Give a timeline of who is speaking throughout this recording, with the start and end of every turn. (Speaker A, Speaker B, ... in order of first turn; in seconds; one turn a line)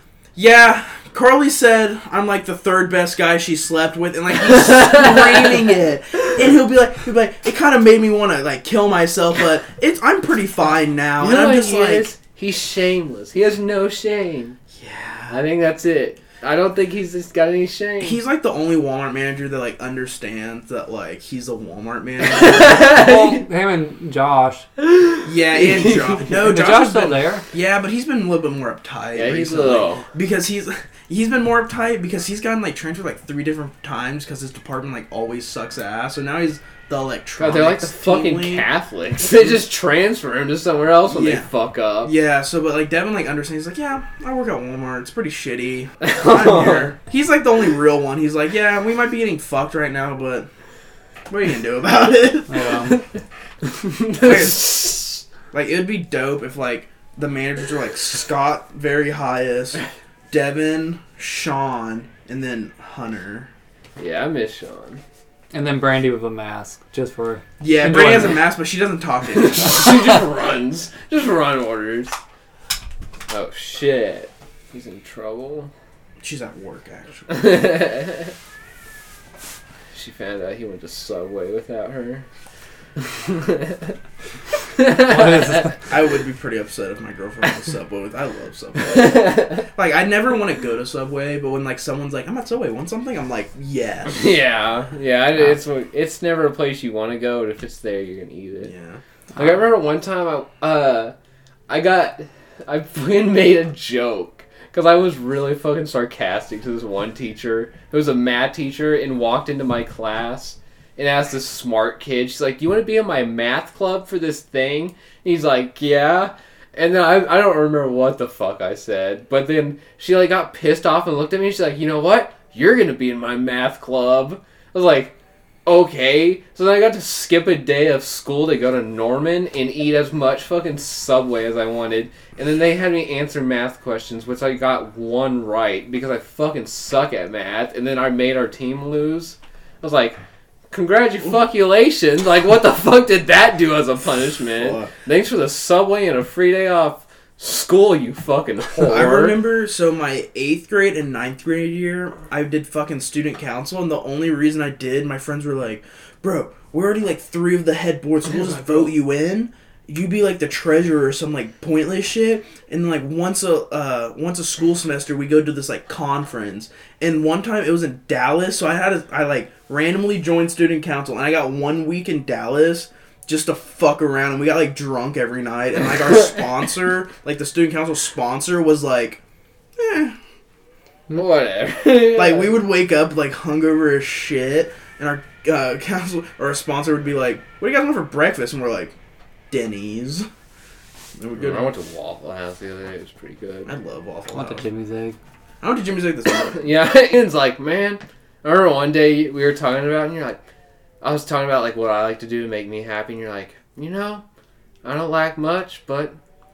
Speaker A: 0.3-12.1
Speaker B: 4.5-5.6
Speaker B: 11.2-14.6
Speaker A: 14.7-15.4
Speaker B: 15.3-18.2
Speaker A: 18.0-22.9
Speaker B: 22.2-23.4
Speaker C: 22.9-24.6
Speaker B: 24.8-26.3
Speaker A: 25.2-38.7
Speaker C: 26.3-27.4
Speaker B: 29.1-30.0
Speaker B: 37.4-42.1
Speaker A: 39.3-39.6
Speaker A: 41.1-41.5
Speaker A: 42.0-50.5
Speaker B: 46.0-46.9
Speaker A: 51.3-52.9
Speaker C: 52.5-53.0
Speaker B: 53.6-55.2
Speaker A: 54.2-54.8
Speaker A: 55.5-63.5
Speaker B: 64.0-65.0
Speaker C: 65.5-68.4
Speaker A: 67.6-70.1
Speaker B: 69.3-72.2
Speaker B: 73.3-75.7
Speaker A: 76.2-77.5
Speaker B: 77.3-78.3
Speaker B: 79.9-82.2
Speaker B: 83.0-84.0
Speaker B: 84.8-85.7
Speaker C: 85.0-85.7
Speaker A: 85.9-94.3
Speaker B: 88.8-89.7
Speaker B: 94.1-98.7
Speaker A: 98.6-99.0
Speaker B: 99.3-101.1
Speaker B: 101.7-125.1
Speaker B: 125.7-140.2
Speaker B: 140.7-149.4
Speaker A: 144.6-144.9
Speaker A: 148.8-179.2
Speaker A: 179.8-180.2
Speaker B: 181.1-182.6
Speaker A: 182.1-188.9
Speaker A: 189.5-190.3
Speaker A: 191.2-191.7
Speaker B: 191.4-193.7
Speaker A: 193.7-194.6
Speaker C: 194.3-195.2
Speaker A: 195.6-196.7
Speaker B: 196.5-200.4
Speaker B: 201.0-204.2
Speaker B: 204.8-206.2